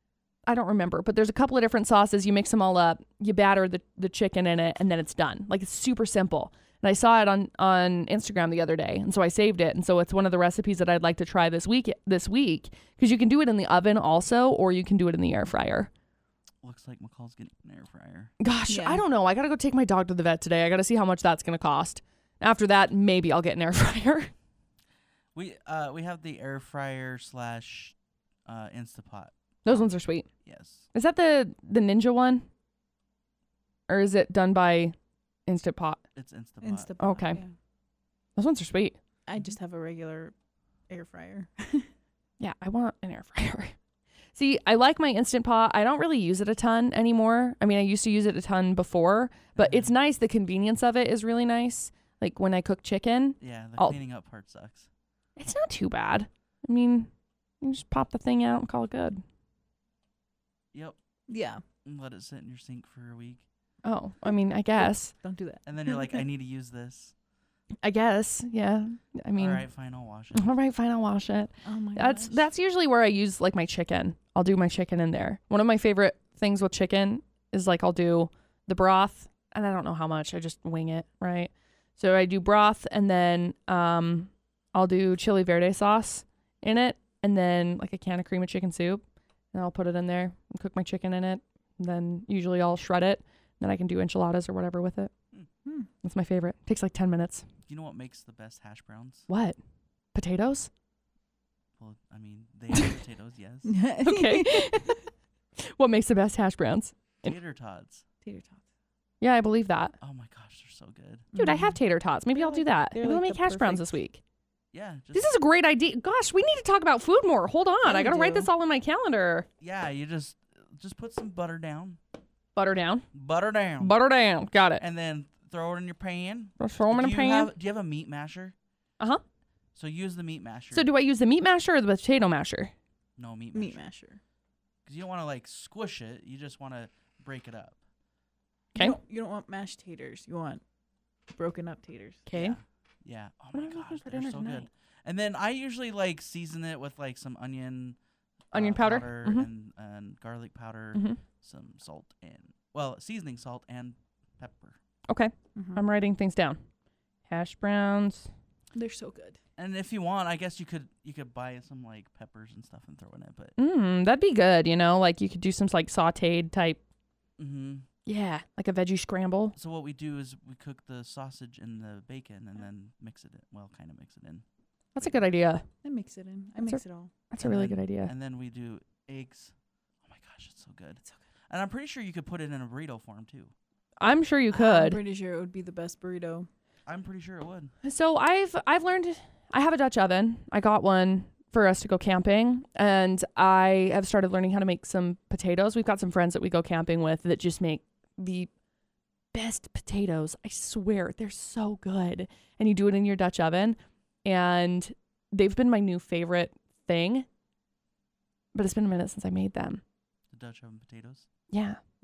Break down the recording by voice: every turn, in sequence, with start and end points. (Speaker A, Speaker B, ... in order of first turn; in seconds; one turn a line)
Speaker A: 0.5-15.9
Speaker B: 16.6-18.3
Speaker A: 18.4-24.3
Speaker C: 18.7-19.0
Speaker B: 25.3-30.9
Speaker A: 29.6-30.3
Speaker A: 30.9-32.4
Speaker A: 33.9-34.9
Speaker A: 35.5-36.0
Speaker B: 36.1-36.9
Speaker C: 36.6-37.5
Speaker A: 37.0-37.4
Speaker A: 38.4-39.0
Speaker C: 39.3-40.3
Speaker C: 40.9-41.9
Speaker A: 42.4-43.7
Speaker A: 44.4-54.0
Speaker B: 49.5-49.9
Speaker B: 53.4-54.9
Speaker A: 55.4-57.1
Speaker A: 57.6-59.2
Speaker B: 60.7-61.0
Speaker C: 61.3-61.6
Speaker B: 61.8-63.4
Speaker A: 63.8-65.1
Speaker C: 65.2-66.2
Speaker B: 65.7-67.1
Speaker A: 67.8-69.7
Speaker B: 69.3-70.5
Speaker A: 70.3-95.1
Speaker C: 71.6-72.5
Speaker A: 96.0-97.5
Speaker B: 97.7-99.3
Speaker A: 99.3-99.6
Speaker A: 100.1-100.7
Speaker B: 101.8-103.7
Speaker C: 103.6-104.9
Speaker A: 104.0-105.0
Speaker A: 105.7-107.0
Speaker B: 107.2-108.0
Speaker C: 108.2-108.6
Speaker A: 109.2-109.9
Speaker B: 110.0-111.3
Speaker C: 111.3-111.8
Speaker A: 111.3-114.2
Speaker C: 112.3-114.0
Speaker B: 114.7-115.3
Speaker A: 115.1-119.5
Speaker C: 117.8-118.5
Speaker B: 119.6-122.0
Speaker A: 122.5-123.0
Speaker B: 123.1-124.0
Speaker A: 123.8-124.8
Speaker B: 124.8-128.5
Speaker A: 126.6-127.5
Speaker B: 129.7-130.9
Speaker A: 130.7-132.7
Speaker B: 133.2-133.8
Speaker C: 133.5-134.2
Speaker B: 134.8-137.8
Speaker C: 138.7-140.6
Speaker C: 141.3-142.2
Speaker A: 142.3-142.6
Speaker B: 142.3-148.0
Speaker A: 143.5-144.7
Speaker B: 148.5-154.8
Speaker A: 148.5-149.5
Speaker A: 150.9-151.2
Speaker A: 155.1-156.6
Speaker C: 155.5-155.8
Speaker A: 157.3-158.3
Speaker C: 158.7-159.4
Speaker B: 159.6-163.5
Speaker A: 163.6-166.8
Speaker B: 167.4-167.8
Speaker A: 168.1-169.5
Speaker B: 169.5-174.4
Speaker A: 174.9-175.6
Speaker B: 175.0-175.2
Speaker C: 175.8-177.1
Speaker A: 176.6-178.1
Speaker B: 177.4-183.5
Speaker A: 184.0-185.0
Speaker C: 184.5-186.5
Speaker B: 186.9-187.7
Speaker A: 187.8-198.5
Speaker A: 199.3-207.2
Speaker A: 208.5-209.8
Speaker B: 210.3-211.3
Speaker A: 211.5-211.8